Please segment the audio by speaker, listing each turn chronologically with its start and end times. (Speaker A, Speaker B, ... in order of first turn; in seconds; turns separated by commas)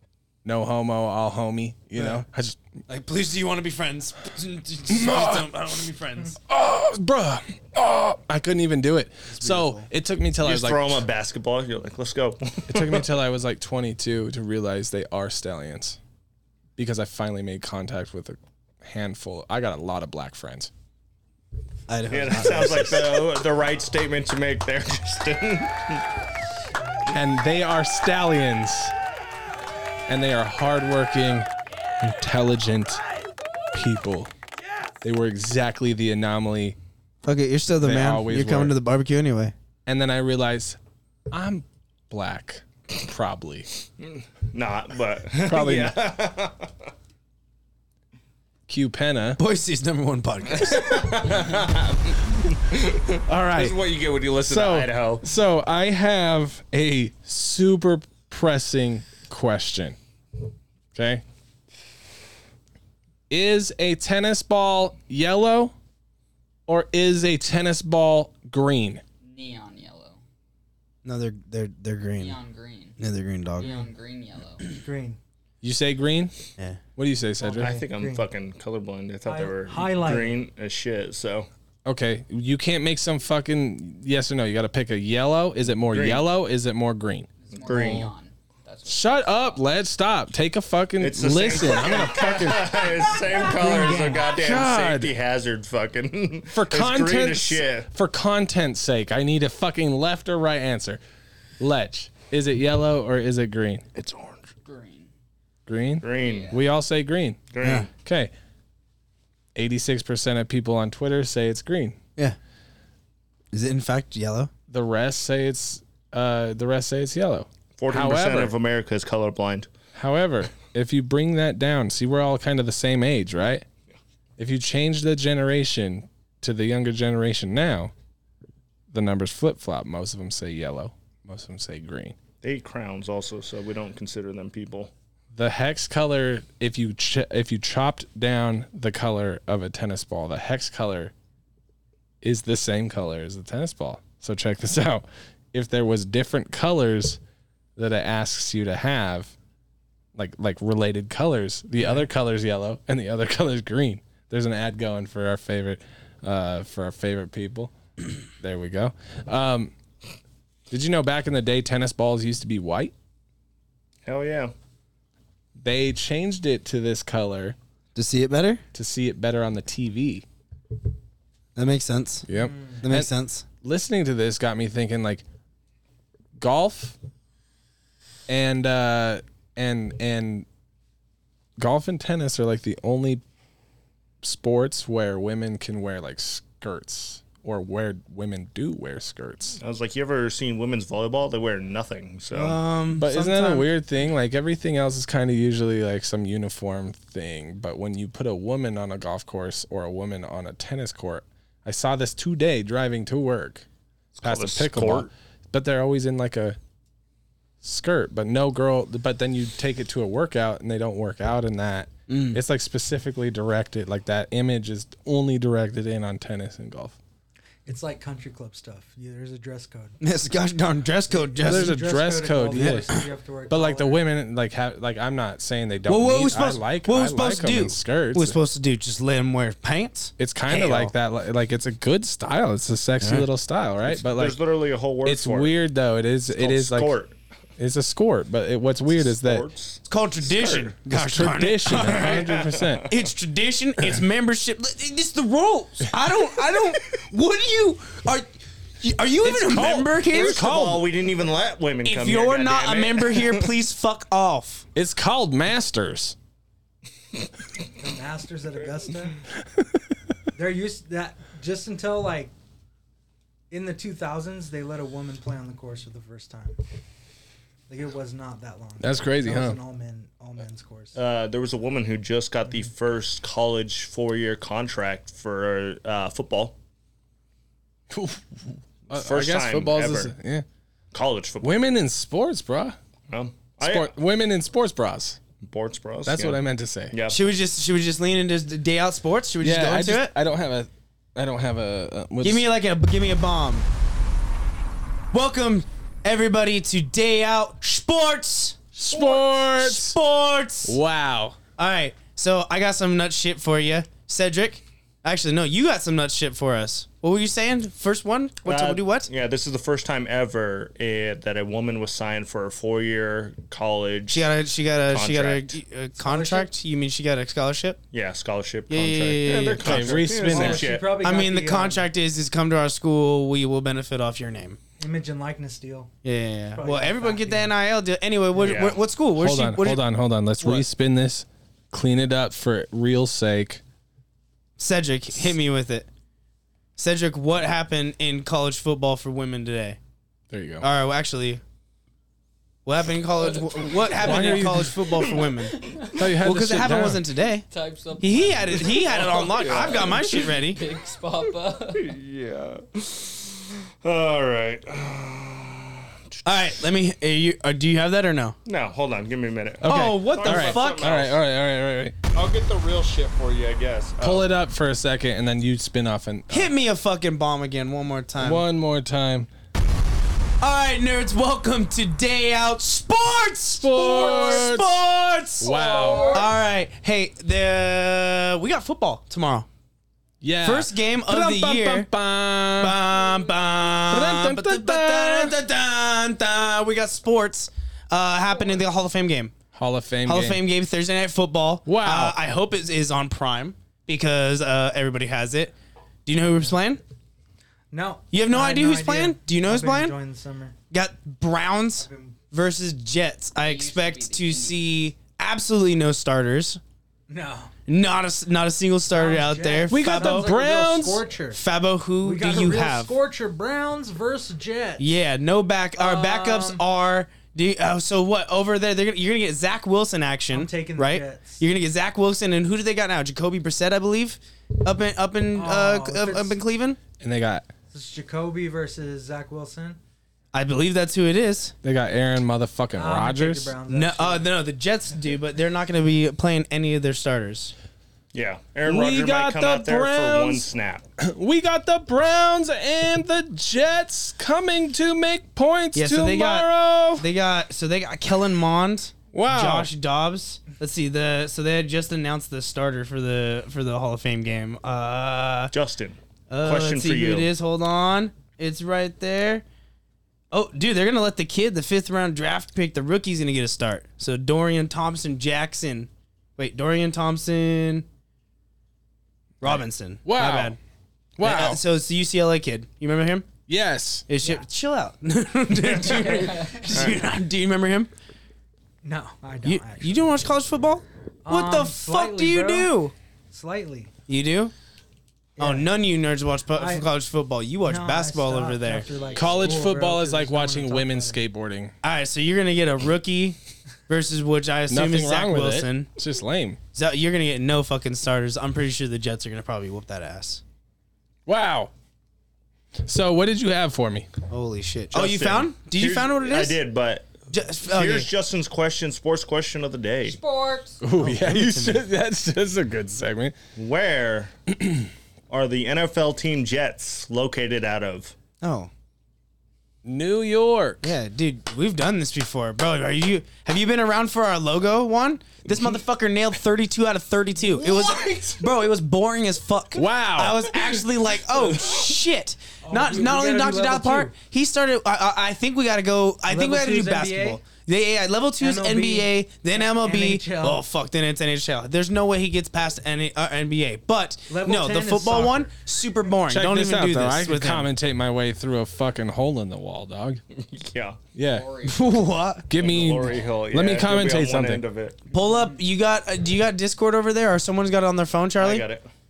Speaker A: 0.4-2.6, Speaker B: 2.0-2.2, Speaker B: 2.9-6.4, Speaker A: 4.9-5.5, Speaker A: 6.5-11.0, Speaker B: 9.3-9.9, Speaker C: 10.4-13.1, Speaker A: 12.7-16.0, Speaker A: 16.8-20.7, Speaker B: 21.9-23.3, Speaker C: 22.1-26.1, Speaker A: 27.1-28.9, Speaker A: 30.1-31.5, Speaker A: 32.0-33.0, Speaker A: 33.7-34.3, Speaker A: 35.0-36.8, Speaker B: 37.2-39.5, Speaker A: 37.8-38.8, Speaker A: 39.9-40.8, Speaker A: 41.3-43.7, Speaker C: 44.0-46.7, Speaker A: 45.4-46.0, Speaker A: 48.7-49.4, Speaker B: 49.4-51.1, Speaker C: 50.6-55.2, Speaker A: 53.3-53.8, Speaker A: 54.4-60.0, Speaker A: 60.9-61.2, Speaker A: 63.3-65.7, Speaker A: 66.7-69.0, Speaker D: 69.2-70.2, Speaker B: 71.0-72.4, Speaker D: 72.2-73.0, Speaker B: 73.0-73.7, Speaker D: 73.6-74.7, Speaker E: 73.6-73.9, Speaker E: 74.7-75.2, Speaker A: 75.6-76.3, Speaker A: 77.0-77.7, Speaker E: 77.4-78.3, Speaker C: 77.6-81.5, Speaker E: 79.2-80.4, Speaker A: 81.9-87.3, Speaker C: 85.9-86.2, Speaker D: 87.4-89.5, Speaker C: 87.6-88.1, Speaker A: 88.9-93.0, Speaker C: 91.0-97.9, Speaker E: 93.3-94.3, Speaker A: 94.2-95.1, Speaker A: 96.5-101.0, Speaker A: 101.6-103.9, Speaker C: 104.0-104.5, Speaker D: 104.7-105.1, Speaker A: 105.7-107.5, Speaker C: 106.0-106.5, Speaker D: 106.2-106.6, Speaker C: 107.5-107.9, Speaker B: 107.6-107.9, Speaker A: 108.0-108.3, Speaker A: 109.5-112.0, Speaker B: 113.5-114.5, Speaker A: 114.7-118.5, Speaker C: 117.8-119.7, Speaker A: 119.9-123.7, Speaker A: 124.4-127.9, Speaker A: 128.9-132.2, Speaker C: 132.4-134.9, Speaker A: 135.3-141.1, Speaker A: 142.2-147.2, Speaker A: 147.8-149.4, Speaker A: 150.2-159.7, Speaker A: 160.7-162.9, Speaker C: 164.1-164.5, Speaker A: 165.6-167.6, Speaker B: 167.9-168.6, Speaker A: 168.7-170.2, Speaker B: 171.6-172.3, Speaker A: 172.3-173.1, Speaker E: 172.3-172.8, Speaker B: 172.8-173.4, Speaker A: 173.6-175.2, Speaker A: 176.4-177.0, Speaker A: 178.3-180.5, Speaker A: 181.6-183.2, Speaker A: 184.2-189.6, Speaker C: 189.6-192.6, Speaker B: 192.3-193.7, Speaker A: 193.0-203.7, Speaker C: 204.2-205.1, Speaker A: 204.2-206.6, Speaker A: 207.6-217.0, Speaker B: 212.1-212.4, Speaker E: 217.7-220.0, Speaker B: 220.0-221.8, Speaker E: 221.1-224.0, Speaker A: 221.4-222.9, Speaker B: 222.5-223.1, Speaker A: 223.5-228.4, Speaker B: 225.9-230.9, Speaker A: 230.2-234.4, Speaker B: 233.0-233.3, Speaker C: 234.0-235.5, Speaker A: 235.0-236.9, Speaker C: 236.3-237.2, Speaker A: 237.6-239.5, Speaker C: 239.0-239.8, Speaker B: 239.9-242.2, Speaker A: 240.3-242.9, Speaker C: 241.8-242.9, Speaker B: 242.9-248.3, Speaker B: 248.8-250.4, Speaker A: 249.2-250.9, Speaker C: 250.1-253.5, Speaker B: 251.8-254.7, Speaker A: 254.8-256.2, Speaker E: 257.8-259.3, Speaker E: 260.4-262.3, Speaker E: 263.5-266.6, Speaker E: 267.7-271.0, Speaker A: 268.8-269.6, Speaker C: 271.0-276.6, Speaker A: 277.9-280.4, Speaker C: 278.9-280.1, Speaker C: 280.9-281.6, Speaker A: 281.4-282.8, Speaker C: 283.1-283.9, Speaker A: 283.6-285.2, Speaker C: 285.4-286.4, Speaker A: 286.1-287.0, Speaker C: 286.9-287.2, Speaker B: 287.1-290.1, Speaker A: 289.4-292.5, Speaker B: 292.2-293.7, Speaker B: 295.1-300.8, Speaker A: 298.8-300.0, Speaker A: 300.6-301.4, Speaker B: 301.6-309.1, Speaker C: 308.4-314.3, Speaker B: 314.1-317.8, Speaker C: 314.9-315.6, Speaker E: 316.0-316.5, Speaker C: 317.9-320.9, Speaker B: 318.7-320.0, Speaker A: 319.5-320.7, Speaker E: 320.2-321.9, Speaker B: 321.0-324.6, Speaker E: 324.8-325.9, Speaker B: 326.0-329.8, Speaker E: 326.5-327.5, Speaker C: 328.4-328.8, Speaker A: 329.2-333.6, Speaker B: 334.6-335.9, Speaker B: 336.8-339.8, Speaker A: 340.3-340.7, Speaker B: 340.6-341.4, Speaker B: 342.7-345.6, Speaker D: 343.2-346.1, Speaker A: 343.9-344.9, Speaker A: 345.9-347.0, Speaker B: 346.2-347.4, Speaker D: 347.5-351.9, Speaker B: 348.0-350.6, Speaker C: 348.7-350.2, Speaker C: 351.8-356.5, Speaker B: 356.2-358.4, Speaker C: 358.4-361.2, Speaker A: 359.6-361.9, Speaker B: 359.7-361.0, Speaker C: 362.1-364.3, Speaker A: 364.0-366.5, Speaker B: 366.3-368.4, Speaker A: 368.2-369.3, Speaker B: 370.4-379.5, Speaker A: 373.5-374.9, Speaker A: 375.4-376.2, Speaker D: 375.4-376.3, Speaker A: 380.2-382.8, Speaker B: 380.4-381.9, Speaker B: 382.6-389.3, Speaker A: 383.9-385.4, Speaker A: 389.5-390.4, Speaker B: 390.1-395.5, Speaker A: 391.7-392.2, Speaker B: 396.1-396.8, Speaker E: 397.7-400.6, Speaker B: 398.1-400.0, Speaker B: 400.7-406.6, Speaker E: 401.8-402.2, Speaker D: 403.4-404.9, Speaker E: 407.1-407.5, Speaker B: 407.7-410.3, Speaker E: 408.9-411.4, Speaker A: 409.7-411.1, Speaker B: 411.3-412.9, Speaker E: 412.0-414.9, Speaker B: 414.8-426.8, Speaker E: 415.8-416.6, Speaker E: 420.3-421.4, Speaker E: 425.3-426.4, Speaker A: 427.0-427.5, Speaker E: 427.7-429.8, Speaker B: 430.3-431.5, Speaker A: 431.6-433.6, Speaker E: 432.8-434.3, Speaker B: 433.7-437.5, Speaker C: 438.1-440.9, Speaker A: 438.6-440.5, Speaker A: 441.0-447.1, Speaker B: 445.8-455.5, Speaker A: 449.1-449.7, Speaker C: 455.5-457.3, Speaker B: 456.3-459.4, Speaker B: 460.3-467.9, Speaker B: 469.4-470.6, Speaker A: 469.4-470.6, Speaker A: 471.2-471.6, Speaker B: 471.2-473.3, Speaker A: 473.5-474.1, Speaker B: 474.1-477.9, Speaker E: 474.2-474.5, Speaker C: 475.6-477.1, Speaker D: 476.1-476.6, Speaker E: 478.8-480.1, Speaker B: 479.4-482.9, Speaker E: 481.2-483.9, Speaker B: 484.1-484.5, Speaker E: 485.4-485.8, Speaker B: 485.4-488.9, Speaker E: 486.5-486.9, Speaker E: 487.6-491.2, Speaker D: 488.9-489.6, Speaker A: 489.1-491.7, Speaker B: 491.8-493.4, Speaker B: 493.9-495.9, Speaker A: 494.7-496.6, Speaker B: 496.7-500.4, Speaker A: 501.3-501.7, Speaker A: 502.9-504.1, Speaker B: 504.3-506.6, Speaker C: 504.9-507.2, Speaker B: 507.3-508.1, Speaker C: 507.7-510.2, Speaker D: 510.0-510.8, Speaker A: 510.8-513.4, Speaker B: 511.0-511.9, Speaker C: 513.6-514.3, Speaker A: 514.6-514.9, Speaker C: 515.3-518.1, Speaker B: 518.4-518.7, Speaker A: 519.8-521.0, Speaker B: 520.8-547.7, Speaker A: 527.8-528.2, Speaker A: 529.7-530.9, Speaker E: 532.6-534.1, Speaker E: 536.3-537.4, Speaker E: 538.4-540.6, Speaker E: 544.3-545.6, Speaker A: 546.3-550.2, Speaker C: 550.4-551.0, Speaker A: 551.1-551.5, Speaker D: 551.3-552.3, Speaker B: 551.6-552.5, Speaker A: 552.5-554.6, Speaker C: 552.5-555.0, Speaker B: 555.1-558.7, Speaker C: 558.4-558.9